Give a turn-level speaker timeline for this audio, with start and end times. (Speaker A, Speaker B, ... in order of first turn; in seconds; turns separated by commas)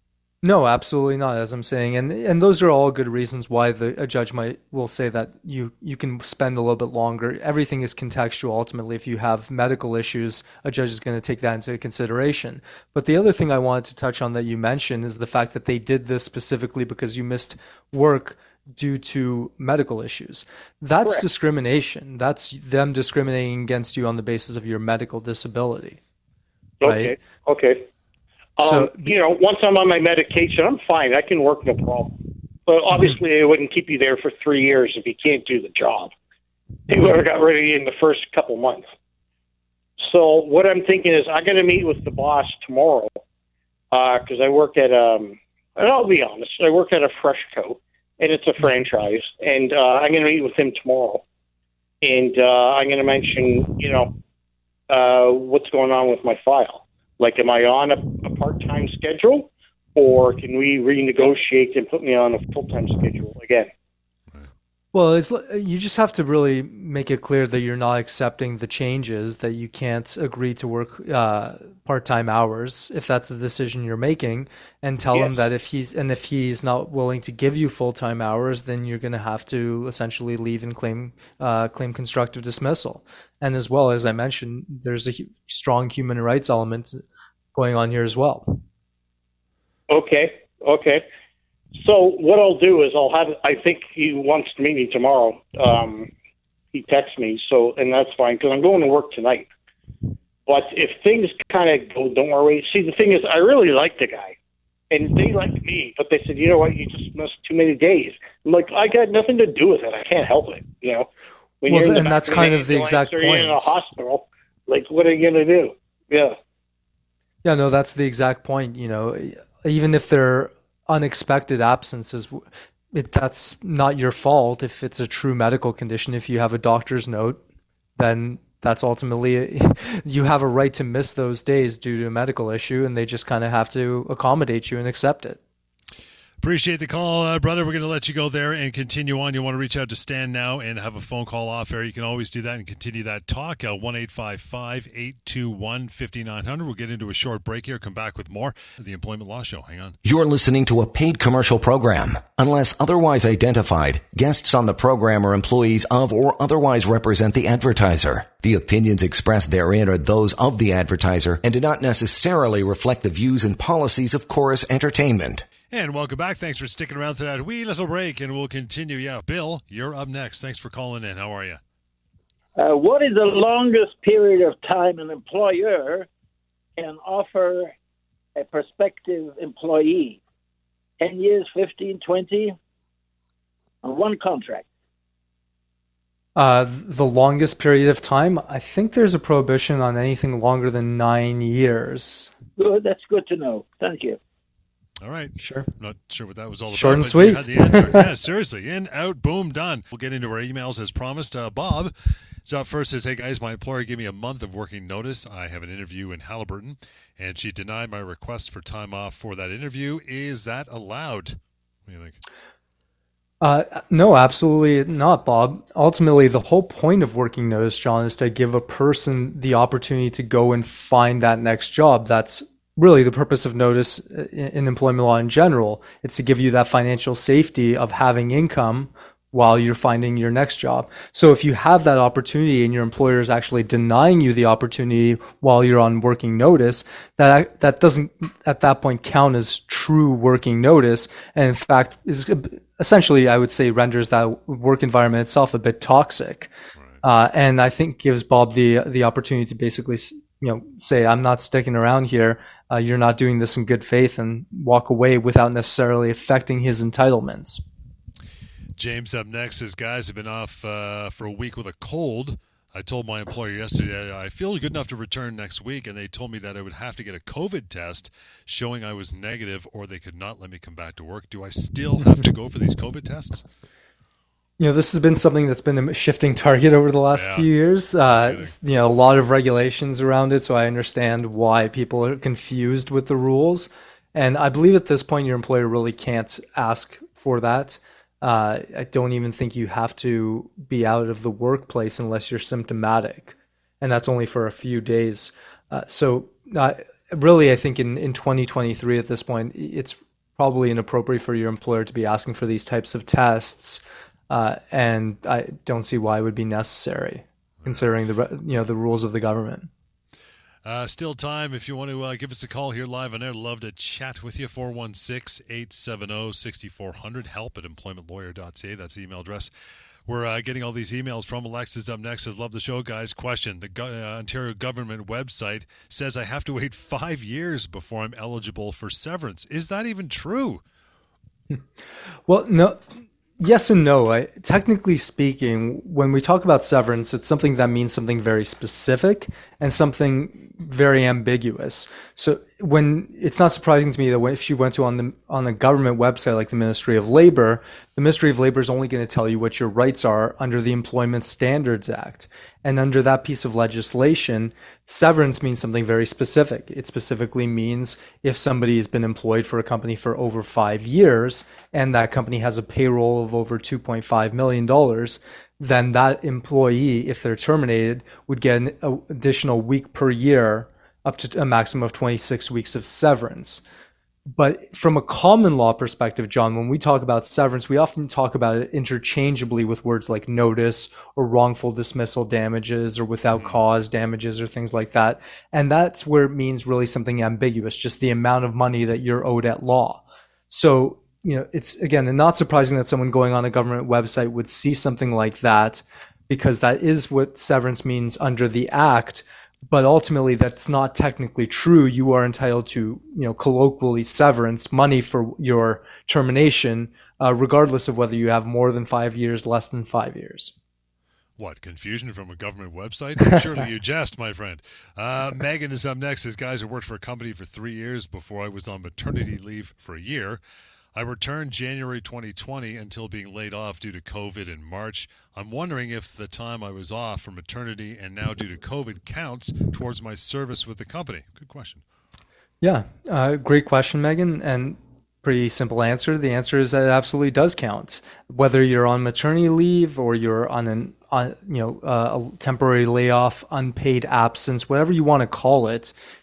Speaker A: 0.4-26.0, Speaker B: 26.8-27.8, Speaker A: 26.8-27.1, Speaker B: 28.6-36.1, Speaker A: 28.6-29.2, Speaker B: 36.9-38.8, Speaker B: 40.0-43.2, Speaker B: 43.9-51.2, Speaker B: 52.0-54.1, Speaker B: 54.9-63.7, Speaker A: 64.9-88.6, Speaker B: 89.9-91.0, Speaker B: 91.8-96.1, Speaker B: 96.7-99.5, Speaker B: 100.5-104.3, Speaker B: 104.9-111.1, Speaker B: 111.6-116.3, Speaker A: 111.7-113.7, Speaker A: 117.4-127.4, Speaker A: 128.0-135.4, Speaker C: 136.4-150.0, Speaker D: 150.0-165.4, Speaker C: 165.7-171.6, Speaker E: 172.6-176.1, Speaker E: 176.8-177.7, Speaker E: 178.3-180.2, Speaker E: 181.0-182.6, Speaker E: 183.8-184.7, Speaker A: 186.3-192.3, Speaker E: 192.6-194.2, Speaker C: 195.0-201.9, Speaker A: 195.4-195.7, Speaker A: 196.7-198.1, Speaker C: 202.4-212.2, Speaker A: 213.4-246.5, Speaker A: 247.0-257.6, Speaker C: 258.8-273.4, Speaker A: 274.6-309.7, Speaker C: 277.1-277.5, Speaker C: 278.1-278.5, Speaker C: 307.6-307.9, Speaker C: 310.6-319.5, Speaker C: 320.1-330.6, Speaker A: 332.3-332.8, Speaker A: 333.4-373.6, Speaker A: 374.2-410.5, Speaker C: 411.4-420.4, Speaker C: 420.9-431.8, Speaker A: 432.6-445.9